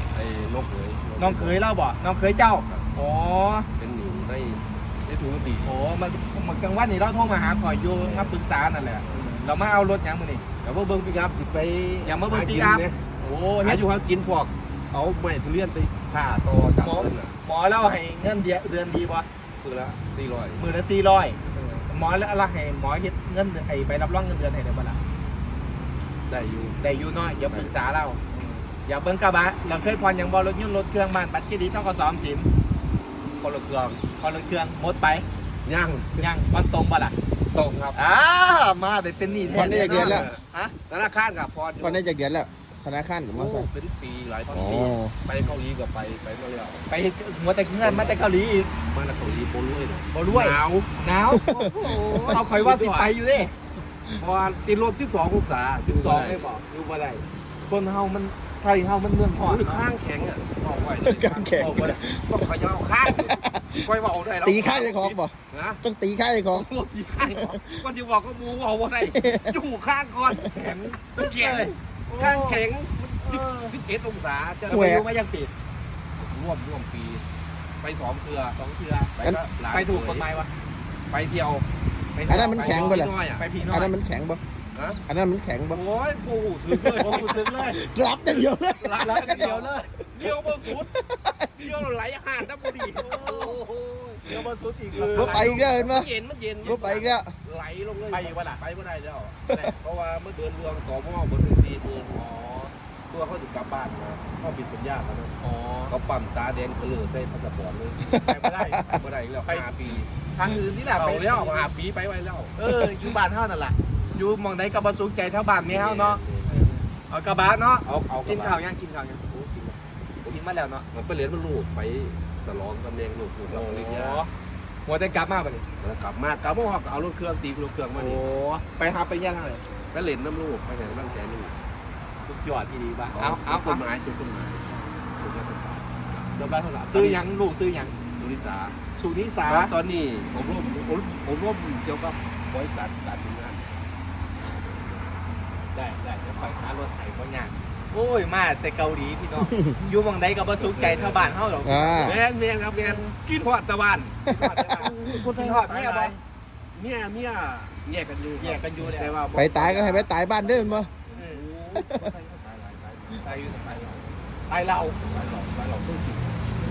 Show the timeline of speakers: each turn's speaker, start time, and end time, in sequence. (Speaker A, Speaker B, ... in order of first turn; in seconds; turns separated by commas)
Speaker A: 0.1-1.6, Speaker B: 1.2-3.7, Speaker A: 3.8-5.8, Speaker B: 5.6-10.4, Speaker A: 8.0-8.3, Speaker A: 9.0-9.4, Speaker A: 10.6-13.0, Speaker B: 12.0-13.8, Speaker A: 13.6-17.4, Speaker B: 16.8-19.2, Speaker A: 19.6-20.7, Speaker B: 20.6-25.0, Speaker A: 21.5-21.9, Speaker A: 26.3-26.8, Speaker B: 26.8-28.2, Speaker A: 27.4-27.7, Speaker A: 28.3-28.6, Speaker B: 28.8-32.5, Speaker A: 33.4-34.0, Speaker B: 34.2-35.2, Speaker A: 35.6-36.3, Speaker B: 36.2-37.1, Speaker A: 37.5-38.0, Speaker B: 37.9-40.7, Speaker A: 39.2-42.1, Speaker C: 39.5-40.3, Speaker C: 41.8-43.7, Speaker A: 43.3-46.9, Speaker C: 44.5-45.1, Speaker B: 46.9-48.7, Speaker A: 47.8-50.9, Speaker B: 50.1-51.5, Speaker A: 51.4-53.1, Speaker C: 51.5-52.4, Speaker B: 52.2-53.5, Speaker A: 54.2-56.5, Speaker B: 55.9-59.8, Speaker A: 59.4-65.8, Speaker C: 61.1-62.4, Speaker B: 61.5-62.0, Speaker C: 63.0-63.9, Speaker C: 64.4-66.7, Speaker A: 66.5-70.5, Speaker C: 67.2-67.8, Speaker C: 69.1-69.5, Speaker B: 70.5-72.6, Speaker A: 71.1-74.9, Speaker B: 73.2-73.7, Speaker B: 74.7-75.5, Speaker C: 74.7-75.0, Speaker A: 76.2-77.2, Speaker A: 77.8-78.6, Speaker B: 78.5-79.1, Speaker A: 79.2-80.3, Speaker B: 79.7-80.5, Speaker A: 81.1-81.7, Speaker B: 82.1-84.0, Speaker C: 82.3-83.1, Speaker A: 82.4-83.4, Speaker C: 83.7-84.4, Speaker A: 84.7-85.0, Speaker C: 85.1-85.8, Speaker A: 85.7-87.4, Speaker C: 86.7-89.5, Speaker B: 86.9-87.8, Speaker A: 88.2-94.4, Speaker B: 89.0-89.9, Speaker C: 90.7-91.4, Speaker B: 92.9-93.6, Speaker B: 94.2-95.8, Speaker A: 95.0-102.2, Speaker C: 95.0-96.1, Speaker C: 96.6-97.3, Speaker B: 98.1-98.6, Speaker B: 102.1-102.7, Speaker A: 103.1-105.3, Speaker B: 105.4-105.9, Speaker A: 105.9-108.3, Speaker C: 108.0-109.0, Speaker B: 108.1-108.8, Speaker A: 108.9-110.1, Speaker B: 110.3-111.7, Speaker A: 111.0-112.5, Speaker B: 112.5-119.3, Speaker A: 113.9-114.3, Speaker A: 115.6-116.7, Speaker A: 117.8-118.6, Speaker A: 119.3-120.4, Speaker B: 120.3-120.8, Speaker A: 120.9-124.3, Speaker B: 123.5-124.3, Speaker B: 124.8-125.7, Speaker A: 125.8-128.2, Speaker B: 127.9-129.6, Speaker A: 129.9-131.5, Speaker B: 132.2-133.8, Speaker A: 133.2-137.2, Speaker B: 136.8-137.9, Speaker A: 138.2-138.8, Speaker B: 138.9-139.7, Speaker A: 139.5-143.8, Speaker A: 144.4-145.2, Speaker B: 145.7-152.2, Speaker A: 150.6-151.4, Speaker C: 151.6-152.2, Speaker A: 151.9-156.2, Speaker B: 152.7-153.1, Speaker B: 154.6-156.2, Speaker A: 156.7-164.1, Speaker B: 158.4-159.1, Speaker C: 159.3-160.9, Speaker B: 161.1-161.4, Speaker C: 161.7-162.1, Speaker B: 163.2-163.6, Speaker B: 164.5-165.0, Speaker A: 165.0-166.4